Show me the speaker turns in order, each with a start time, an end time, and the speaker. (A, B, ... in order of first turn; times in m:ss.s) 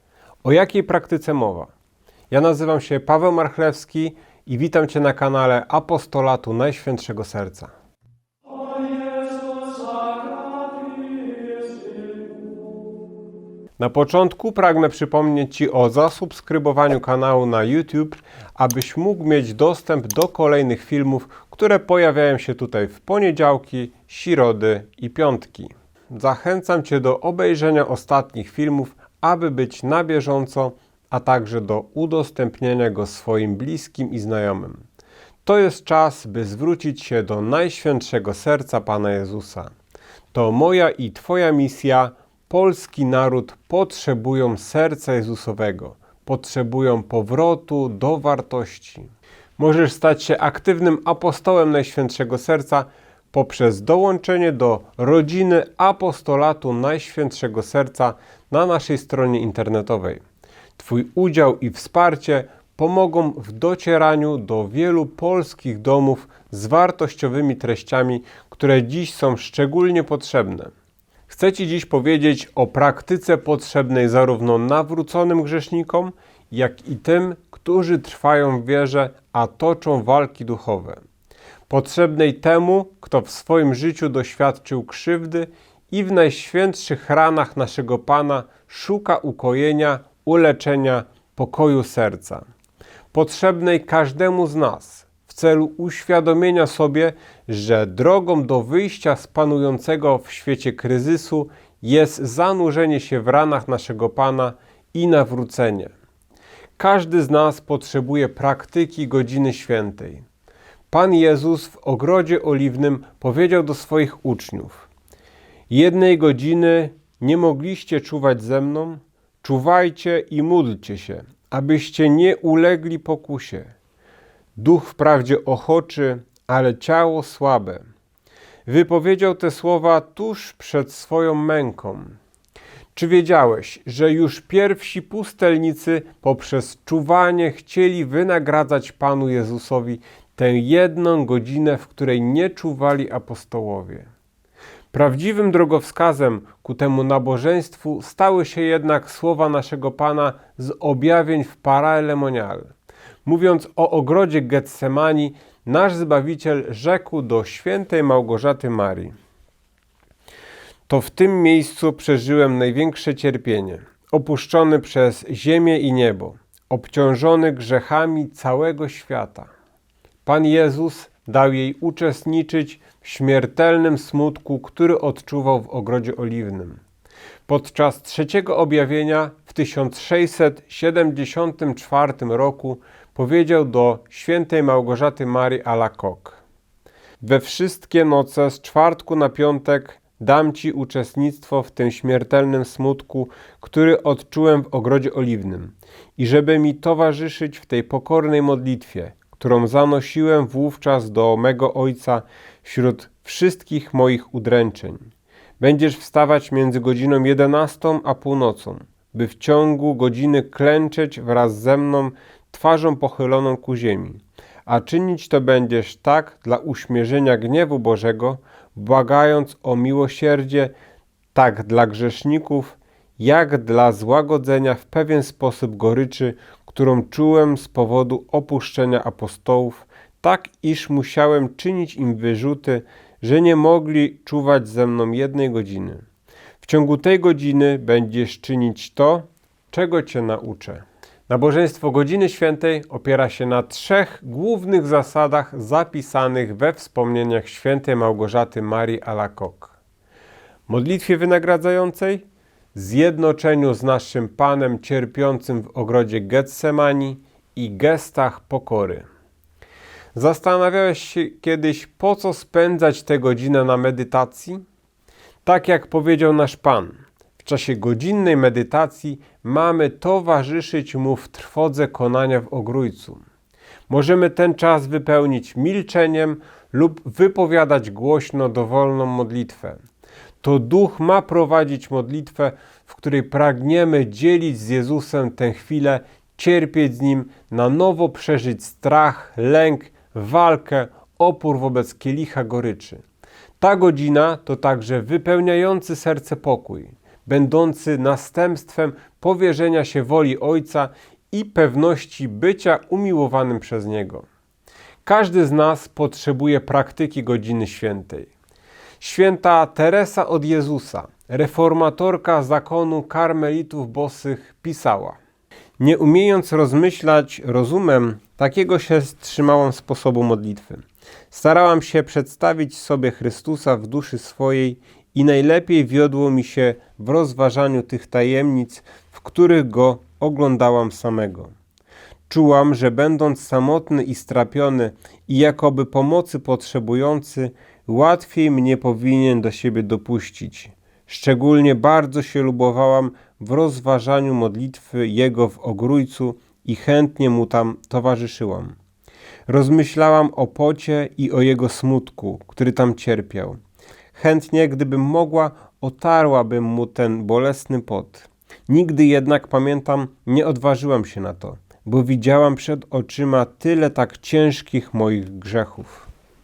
0:00.4-0:01.7 A
0:02.3-0:07.7 A
0:13.8-0:34.8 A
0:35.4-0:39.7 A
0:40.3-1:00.2 A
1:00.8-1:10.7 A
1:11.3-1:21.0 A
1:21.7-1:32.4 A
1:33.1-1:45.9 A
1:46.8-1:50.2 A
1:50.9-1:54.9 A
1:55.7-2:03.7 A
2:04.6-2:07.8 A
2:08.6-2:12.2 A
2:12.9-2:24.1 A
2:24.9-2:32.7 A
2:33.2-2:39.1 A
2:40.9-2:49.5 A
2:50.2-2:56.8 A
2:57.5-3:06.4 A
3:07.2-3:25.1 A
3:25.6-3:40.7 A
3:41.3-3:56.0 A
3:56.6-4:09.8 A
4:10.7-4:19.0 A
4:20.1-4:24.6 A
4:25.4-4:33.2 A
4:33.9-4:39.8 A
4:40.4-4:53.0 A
4:53.6-5:04.2 A
5:05.0-5:08.3 A
5:09.0-5:15.2 A
5:15.8-5:31.5 A
5:32.3-5:48.8 A
5:49.5-5:53.6 A
5:54.1-6:06.1 A